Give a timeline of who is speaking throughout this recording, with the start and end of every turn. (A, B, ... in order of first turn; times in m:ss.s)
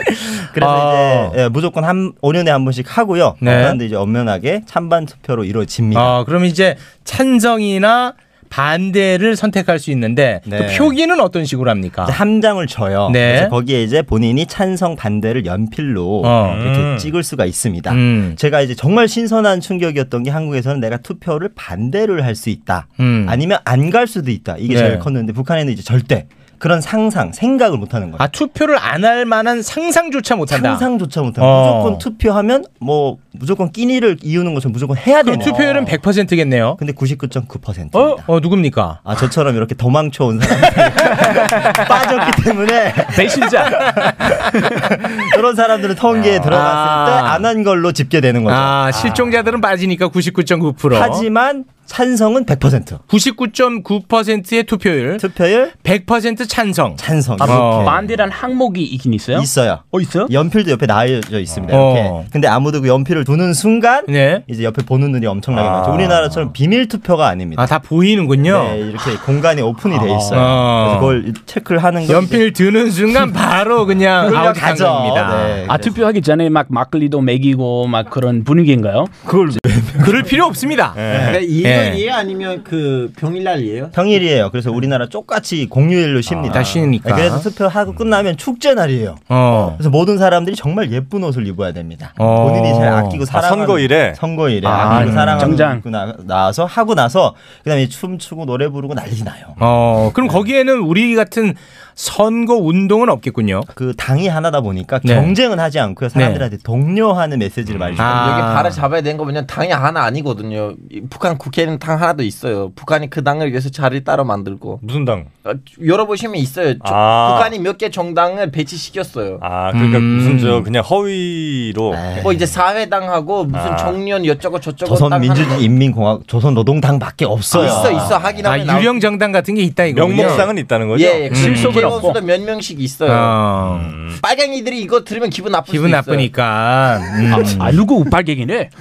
0:00.3-0:06.2 A
0:00.6-0:01.4 B
0:03.4-0:03.8 B
0:05.9-0:12.2 B
0:10.4-0:11.0 A
0:12.0-0:28.2 A
0:13.1-0:13.5 B
0:16.2-0:16.6 B
0:16.5-0:17.1 C
0:17.9-0:18.4 B
0:23.0-0:23.4 B
0:24.7-0:25.1 B
0:28.2-0:30.8 B
0:30.5-0:35.9 A
0:31.4-0:32.0 B
0:35.2-0:36.8 B
0:36.8-0:38.3 A
0:37.9-0:38.2 D
0:38.3-0:39.0 B
0:39.0-0:48.8 A
0:43.1-0:43.9 D
0:46.2-0:47.4 B
0:48.5-0:51.2 B
0:50.9-0:53.0 A
0:53.1-0:55.2 B
0:55.2-0:55.7 A
0:55.8-0:58.0 B
0:57.0-0:58.0 A
0:57.4-1:00.3 D
0:59.3-1:07.7 A
1:01.7-1:02.2 B
1:04.1-1:04.4 B
1:05.5-1:06.5 C
1:07.6-1:08.8 B
1:08.4-1:12.4 A
1:10.1-1:11.2 B
1:12.1-1:15.6 B
1:14.2-1:16.0 A
1:15.6-1:19.1 D
1:19.2-1:20.3 A
1:20.0-1:22.0 B
1:20.9-1:21.4 C
1:21.1-1:21.4 A
1:21.2-1:23.9 E
1:23.9-1:39.6 A
1:26.5-1:27.4 B
1:29.3-1:29.8 B
1:32.2-1:33.2 B
1:33.3-1:34.2 C
1:34.6-1:35.8 D
1:34.8-1:35.6 B
1:39.6-1:43.7 B
1:43.7-1:48.4 A
1:45.0-1:45.3 B
1:46.1-1:46.4 B
1:47.7-1:48.0 C
1:48.0-1:48.8 B
1:48.0-1:54.8 E
1:54.8-1:55.3 C
1:55.4-1:59.4 E
1:56.8-1:57.5 C
1:59.4-2:02.0 C
1:59.7-2:00.7 B
2:01.9-2:02.4 A
2:02.2-2:05.6 E
2:03.5-2:04.0 C
2:04.8-2:08.2 A
2:07.5-2:09.1 E
2:07.7-2:10.6 B
2:09.9-2:11.9 C
2:10.1-2:13.4 E
2:11.3-2:12.2 D
2:11.3-2:12.0 B
2:13.1-2:13.9 B
2:13.6-2:14.2 C
2:14.2-2:16.3 E
2:15.7-2:17.8 B
2:17.3-2:18.7 D